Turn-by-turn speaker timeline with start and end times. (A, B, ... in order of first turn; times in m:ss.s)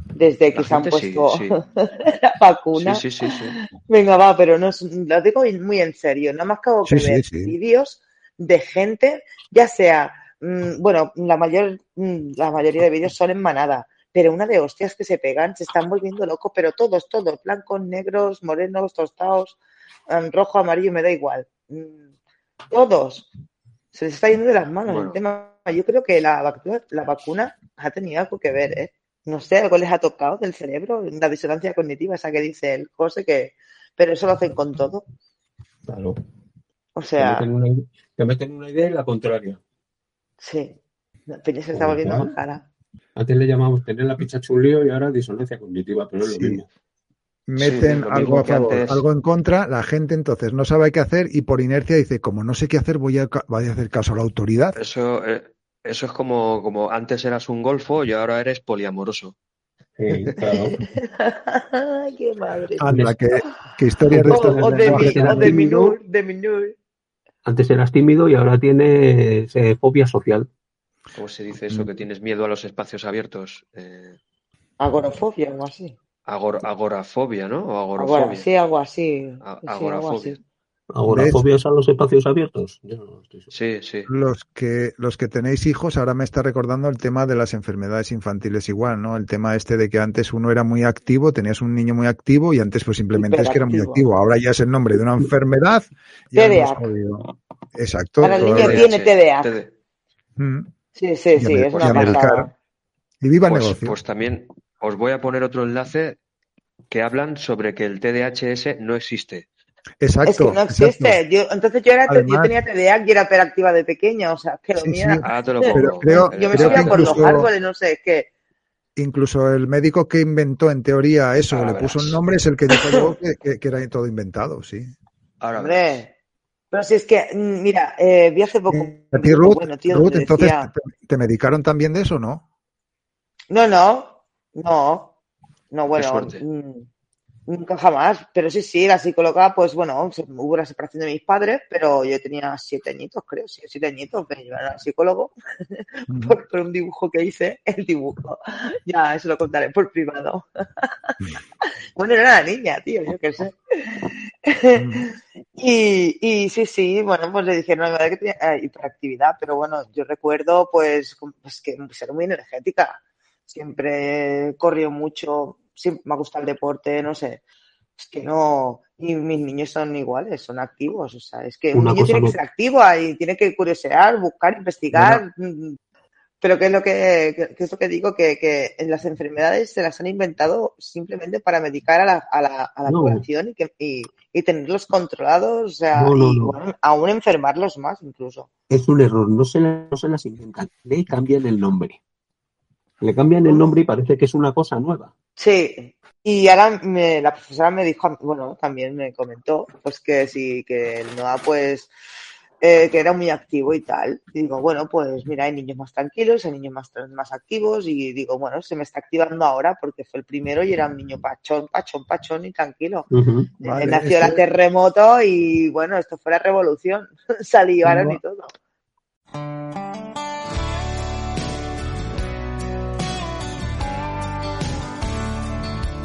0:00.1-0:03.1 A
0:00.5-0:01.6 B
0:02.7-0:03.6 B
0:03.6-0:19.6 A
0:06.8-0:07.5 C
0:20.1-0:22.0 A
0:22.7-0:23.3 A
0:23.9-0:35.0 A
0:24.8-0:25.2 B
0:35.8-0:36.2 D
0:36.9-0:37.5 A
0:37.2-0:39.6 D
0:40.4-0:40.8 A
0:41.3-0:42.6 A
0:41.7-0:42.3 D
0:43.2-0:46.7 D
0:46.2-0:46.6 C
0:47.5-0:54.8 C
0:47.6-0:49.0 B
0:54.8-0:59.3 B
1:00.0-1:00.9 D
1:00.8-1:03.5 A
1:02.8-1:05.6 C
1:02.9-1:03.1 D
1:04.1-1:06.0 D
1:04.3-1:06.7 A
1:07.4-1:10.5 D
1:11.1-1:14.2 B
1:14.8-1:16.0 A
1:16.2-1:18.5 B
1:18.0-1:20.4 A
1:19.4-1:20.4 B
1:20.9-1:23.5 D
1:21.0-1:21.4 C
1:23.5-1:24.1 B
1:24.1-1:38.9 C
1:33.2-1:34.0 A
1:36.3-1:36.9 A
1:38.2-1:39.5 A
1:38.2-1:39.7 B
1:40.4-1:40.7 C
1:40.9-1:42.5 A
1:41.4-1:42.5 C
1:41.7-1:42.3 B
1:43.2-1:43.9 C
1:43.4-1:46.2 B
1:46.9-1:49.4 B
1:50.0-1:51.2 C
1:50.2-1:58.3 A
1:52.1-1:52.5 C
1:54.8-1:57.5 C
1:55.2-1:57.4 B
1:59.0-2:04.9 C
2:01.5-2:02.2 B
2:02.7-2:03.1 A
2:05.4-2:06.0 B
2:05.6-2:06.1 A
2:06.7-2:10.7 A
2:08.7-2:12.4 C
2:13.5-2:15.1 A
2:15.7-2:16.9 A
2:15.9-2:16.4 B
2:17.5-2:31.1 A
2:26.1-2:26.4 C
2:32.0-2:47.4 A
2:34.8-2:35.0 C
2:48.0-2:55.8 A
2:51.7-2:52.4 D
2:54.9-2:55.2 D
2:56.4-3:08.5 A
3:02.9-3:03.2 D
3:06.0-3:06.6 D
3:08.7-3:12.0 D
3:13.0-3:15.1 D
3:13.4-3:13.7 A
3:15.4-3:21.9 A
3:22.6-3:33.1 A
3:33.1-3:33.5 D
3:33.6-3:38.5 A
3:33.6-3:34.4 C
3:37.8-3:38.2 D